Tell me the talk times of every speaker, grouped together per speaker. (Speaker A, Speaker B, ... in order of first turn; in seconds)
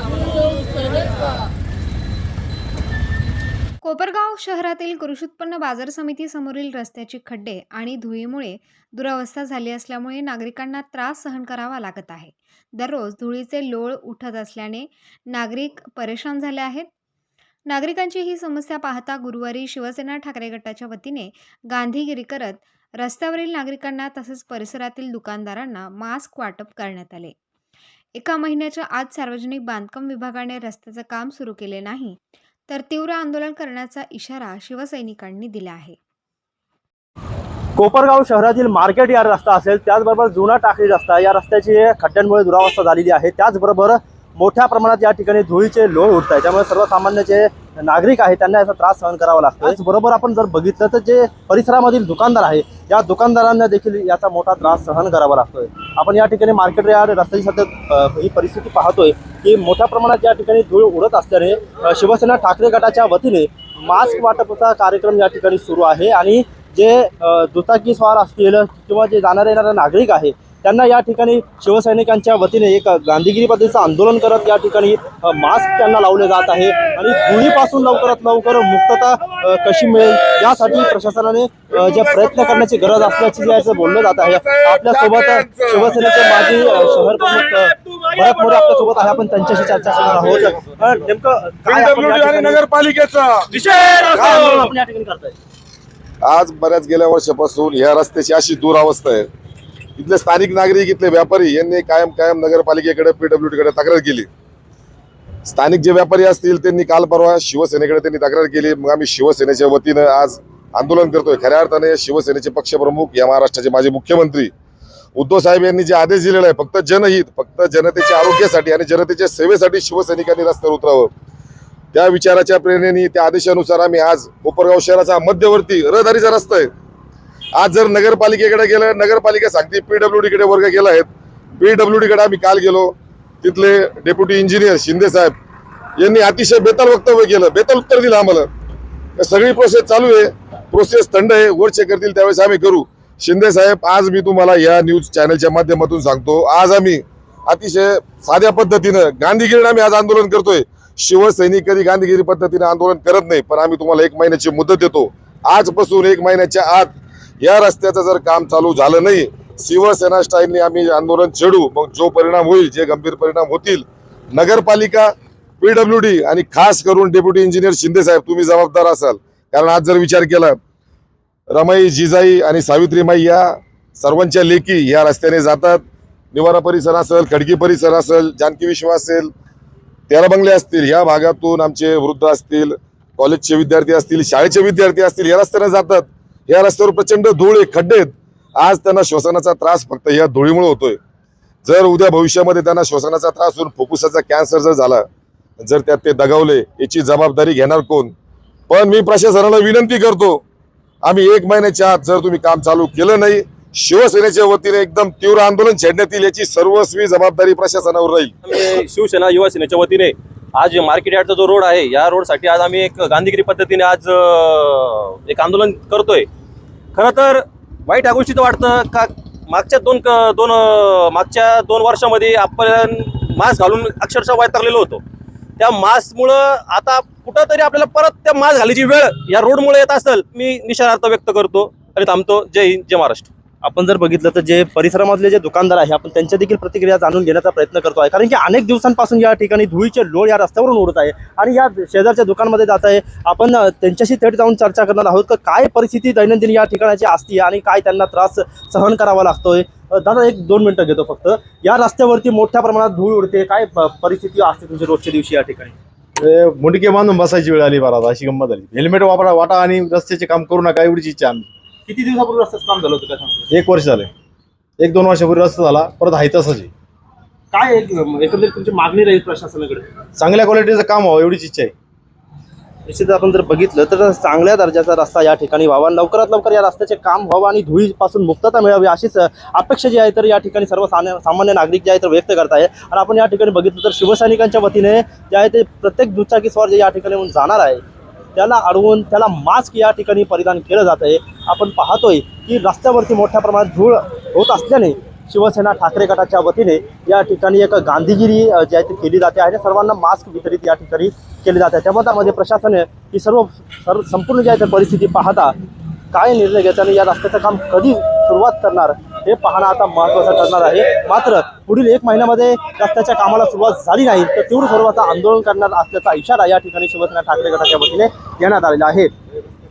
Speaker A: 3.8-16.9, 17.7-27.4, 28.1-36.0
Speaker B: 37.8-92.6, 93.5-95.4, 233.6-255.8, 261.9-263.5, 267.5-269.9, 272.9-287.8, 288.4-305.6, 306.1-319.1
Speaker C: 84.4-85.9, 91.7-93.5, 96.2-99.3, 100.0-104.3, 105.5-114.5, 115.2-121.1, 121.9-126.7, 127.6-135.3, 136.0-138.5, 139.2-170.6, 171.5-175.8, 176.3-179.3, 180.1-191.0, 191.6-195.0, 195.6-198.1, 198.7-200.4, 201.0-208.3
Speaker D: 208.4-216.3, 216.9-225.0, 225.6-233.3
Speaker E: 256.2-261.5, 263.5-264.1, 264.8-266.7, 270.2-271.7